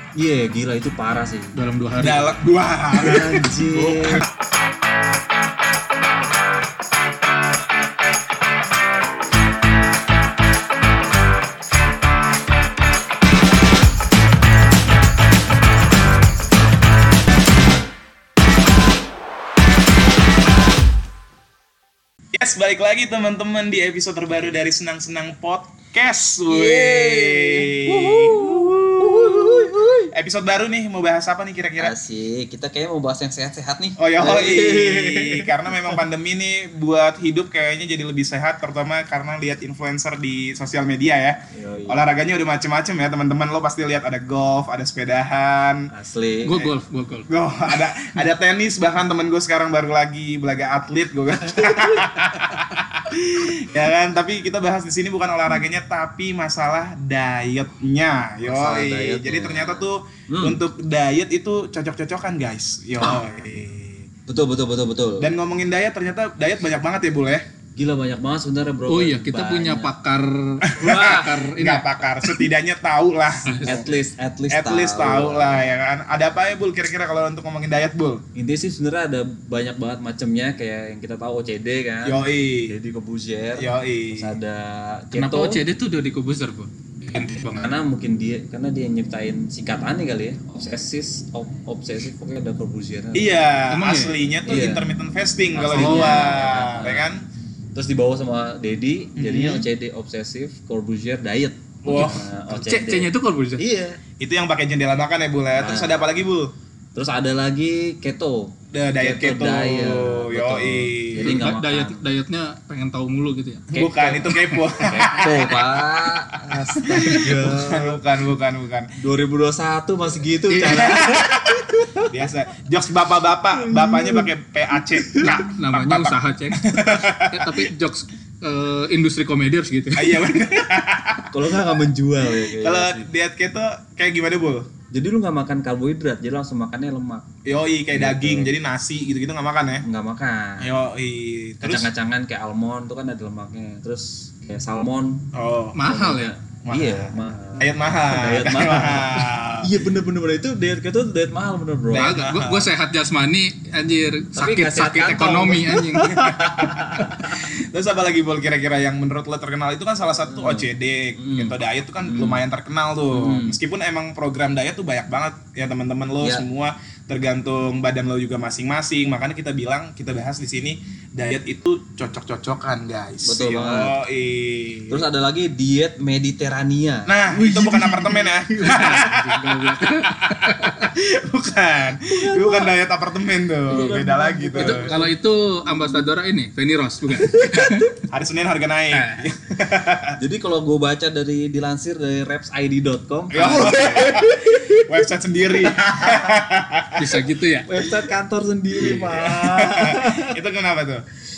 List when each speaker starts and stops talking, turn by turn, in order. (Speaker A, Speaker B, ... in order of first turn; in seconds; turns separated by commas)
Speaker A: 0.1-1.5, Speaker B: 1.5-2.3, Speaker C: 2.0-4.3, Speaker A: 2.9-4.2, Speaker C: 22.3-31.9, Speaker A: 26.5-30.1, Speaker A: 31.8-36.0, Speaker C: 34.0-45.9, Speaker A: 41.5-42.0, Speaker A: 45.9-46.7, Speaker B: 46.4-47.3, Speaker C: 47.3-64.1, Speaker A: 58.4-60.6, Speaker A: 64.3-65.3, Speaker C: 65.2-67.4, Speaker A: 67.8-69.9, Speaker B: 68.9-72.2, Speaker C: 70.6-73.9, Speaker A: 70.8-71.2, Speaker B: 73.5-74.0, Speaker A: 73.6-75.7, Speaker C: 74.5-78.2, Speaker A: 78.3-85.6, Speaker C: 82.0-82.7, Speaker C: 83.6-84.3, Speaker B: 85.1-87.7, Speaker A: 87.5-93.3, Speaker C: 93.1-97.2, Speaker B: 93.7-94.2, Speaker A: 94.4-94.8, Speaker A: 95.5-97.1, Speaker B: 95.7-96.4, Speaker A: 97.7-104.0, Speaker C: 99.2-99.6, Speaker C: 101.8-102.3, Speaker B: 102.5-103.6, Speaker C: 104.2-106.5, Speaker A: 105.5-106.0, Speaker A: 106.9-112.0, Speaker C: 108.7-111.5, Speaker B: 111.2-115.0, Speaker C: 113.7-118.9, Speaker A: 114.8-118.0, Speaker A: 119.0-122.1, Speaker B: 120.5-121.0, Speaker C: 120.7-127.7, Speaker A: 123.6-124.3, Speaker A: 124.9-125.3, Speaker B: 125.2-130.3, Speaker C: 129.9-131.7, Speaker A: 131.3-133.1, Speaker C: 132.3-134.7, Speaker A: 134.9-137.3, Speaker C: 137.4-139.8, Speaker A: 137.9-138.5, Speaker A: 139.8-140.7, Speaker C: 140.6-141.9, Speaker A: 141.6-145.3, Speaker C: 145.3-145.8, Speaker B: 145.7-146.3, Speaker A: 145.8-152.2, Speaker C: 146.6-149.7, Speaker C: 151.9-152.7, Speaker B: 151.9-156.2, Speaker A: 154.3-157.5, Speaker C: 156.0-175.1, Speaker A: 160.3-162.4, Speaker A: 163.1-163.6, Speaker A: 173.2-173.9, Speaker A: 174.9-179.0, Speaker C: 177.1-184.9, Speaker B: 178.6-180.9, Speaker A: 182.1-182.7, Speaker A: 183.7-185.1, Speaker B: 184.6-188.0, Speaker A: 187.2-187.9, Speaker C: 188.1-190.2, Speaker B: 188.9-189.2, Speaker A: 190.2-195.1, Speaker C: 193.3-197.1, Speaker A: 195.6-196.4, Speaker B: 196.9-197.7, Speaker A: 197.6-200.4, Speaker C: 198.8-201.0